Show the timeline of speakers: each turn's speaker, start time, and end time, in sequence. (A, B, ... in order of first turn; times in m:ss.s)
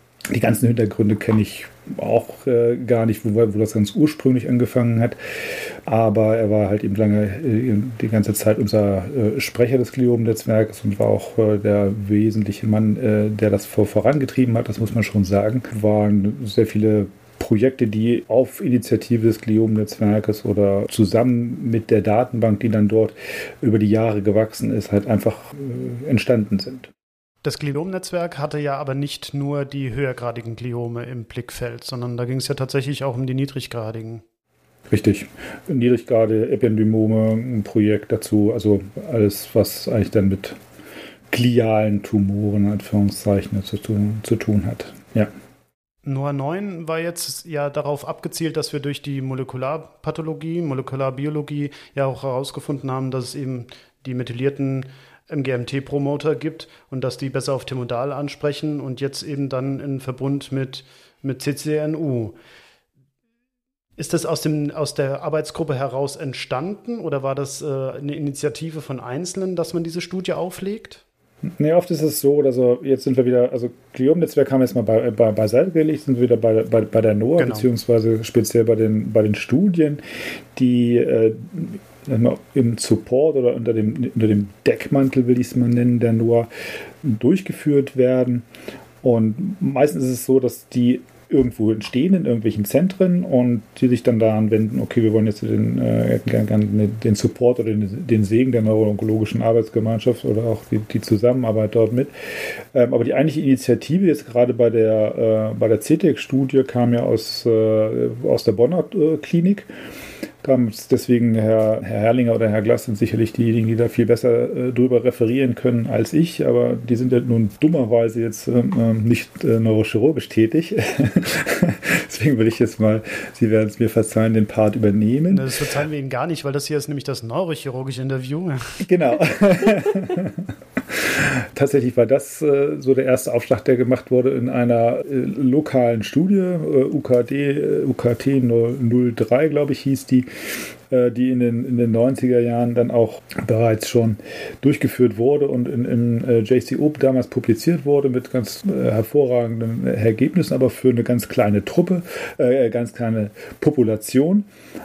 0:00.3-0:26.9 A
0:27.4-0:34.2 B
0:34.9-0:40.6 A
0:41.3-0:45.3 A
0:46.0-1:02.4 B
1:04.0-1:11.0 B
1:11.6-1:20.0 A
1:17.4-1:17.7 B
1:20.6-1:26.5 A
1:27.0-1:28.5 A
1:29.0-1:42.1 A
1:42.7-1:49.7 A
1:50.4-2:05.5 A
2:05.3-2:08.6 B
2:08.8-2:20.3 A
2:20.9-2:34.5 A